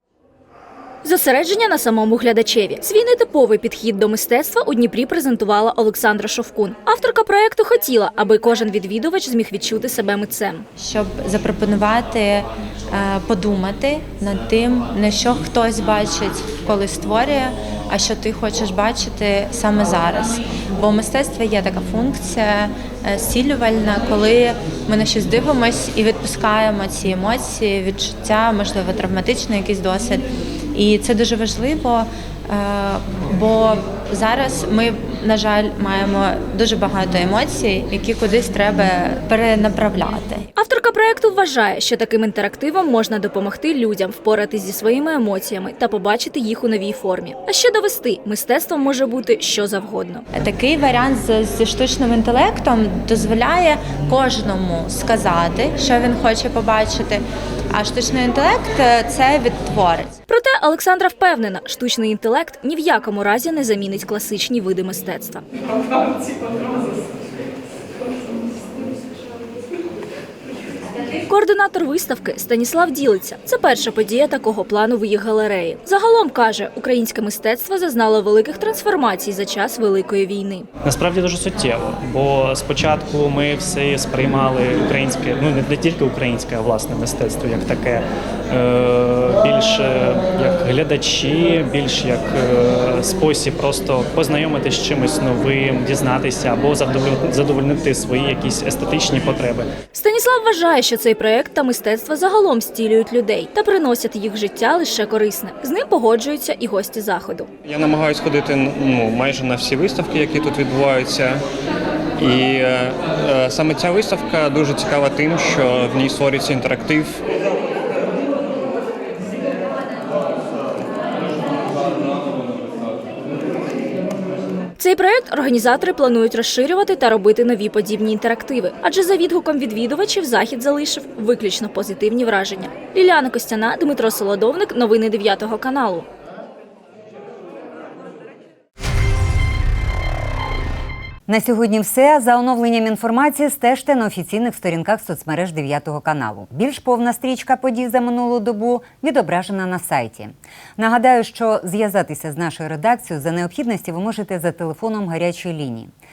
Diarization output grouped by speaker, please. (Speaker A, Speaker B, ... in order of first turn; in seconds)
Speaker A: 1.0-10.7, 40.6-50.2, 60.3-65.4, 71.3-80.7, 100.0-107.5, 124.8-136.1
Speaker B: 10.8-40.5, 50.3-60.2
Speaker C: 80.8-99.7
Speaker D: 107.8-111.4, 112.4-113.0, 113.6-117.2
Speaker E: 141.3-155.9